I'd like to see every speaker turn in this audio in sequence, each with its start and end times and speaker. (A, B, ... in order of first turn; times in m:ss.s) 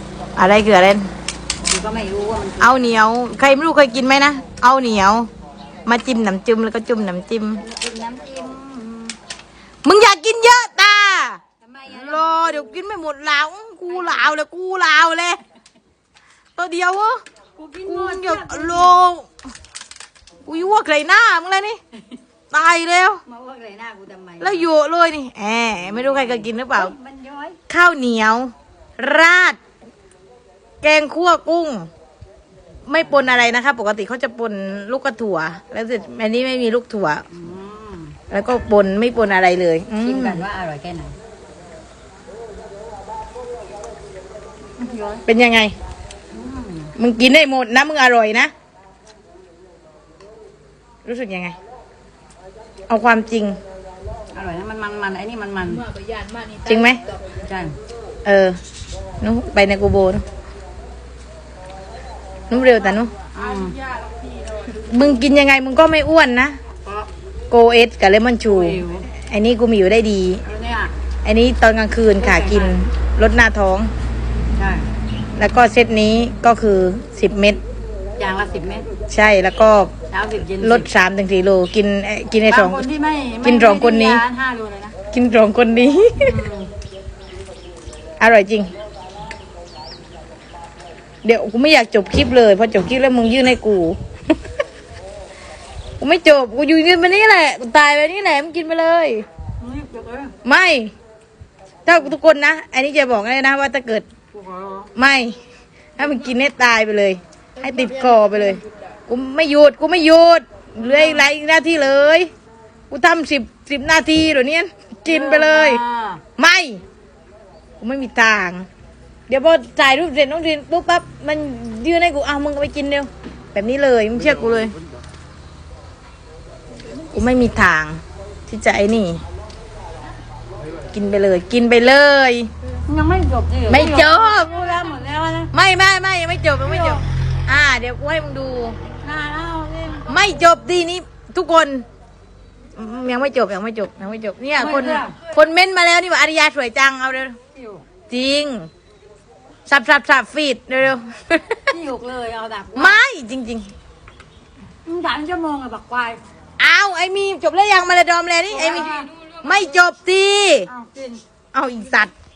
0:00.4-0:01.1 A
0:01.6-0:03.0 B
0:02.6-0:05.3 A
0:05.8-0:07.6 A
0:07.6-0:09.2 B
0:09.8-0:15.4 A
0:11.6-0:12.8 B
0:13.9-0:14.3 B
0:16.6-0:17.2 A
0:17.6-0:18.9 B
0:17.8-0:19.3 A
0:20.4-0:21.8 A
0:22.5-0:23.2 A
0:23.2-0:24.7 B
0:24.4-0:26.9 A
0:25.8-0:27.6 B
0:27.7-0:29.6 A
0:30.8-0:31.9 A
0:32.9-0:37.2 A
0:37.3-0:38.2 B
0:38.3-0:40.4 A
0:40.0-0:41.2 B
0:44.8-0:45.2 B
0:45.2-0:45.7 A
0:46.3-0:46.9 B
0:47.0-0:48.5 A
0:51.0-0:51.6 A
0:52.9-0:53.6 A
0:54.3-0:55.9 B
0:56.6-0:57.0 A
0:57.4-0:57.8 B
0:58.2-0:58.6 A
0:59.2-1:00.2 A
1:02.5-1:03.1 A
1:03.3-1:03.8 B
1:04.8-1:06.6 A
1:07.5-1:10.4 A
1:08.4-1:09.1 B
1:10.4-1:10.9 B
1:11.2-1:13.9 A
1:12.2-1:12.8 B
1:14.5-1:14.9 B
1:15.4-1:17.6 A
1:18.2-1:19.0 B
1:19.1-1:19.9 A
1:20.1-1:20.9 B
1:20.6-1:22.8 A
1:22.5-1:25.0 B
1:23.4-1:24.2 A
1:25.1-1:26.3 A
1:26.2-1:26.7 B
1:28.2-1:28.7 A
1:31.2-1:34.0 A
1:36.0-1:39.2 A
1:39.6-1:40.3 B
1:40.4-1:40.9 A
1:41.8-1:44.1 A
1:44.3-1:44.9 B
1:44.9-1:45.4 A
1:46.0-1:52.3 A
1:50.8-1:51.3 B
1:52.9-1:55.8 A
1:55.0-1:56.2 B
1:56.4-1:56.8 A
1:57.8-1:58.7 A
1:59.3-2:04.7 A
2:07.1-2:09.2 A
2:10.9-2:12.5 A
2:12.9-2:15.5 B
2:13.7-2:14.5 A
2:15.5-2:18.8 A
2:16.6-2:17.0 B
2:19.0-2:20.1 B
2:20.1-2:21.8 A
2:22.8-2:27.4 A
2:24.6-2:25.2 B
2:27.5-2:27.8 B
2:28.1-2:28.7 A
2:29.7-2:31.7 A
2:31.7-2:33.0 B
2:32.7-2:33.7 A
2:34.8-2:36.2 B
2:36.6-2:40.7 A
2:38.5-2:39.1 B
2:40.7-2:41.2 B
2:41.5-2:42.1 A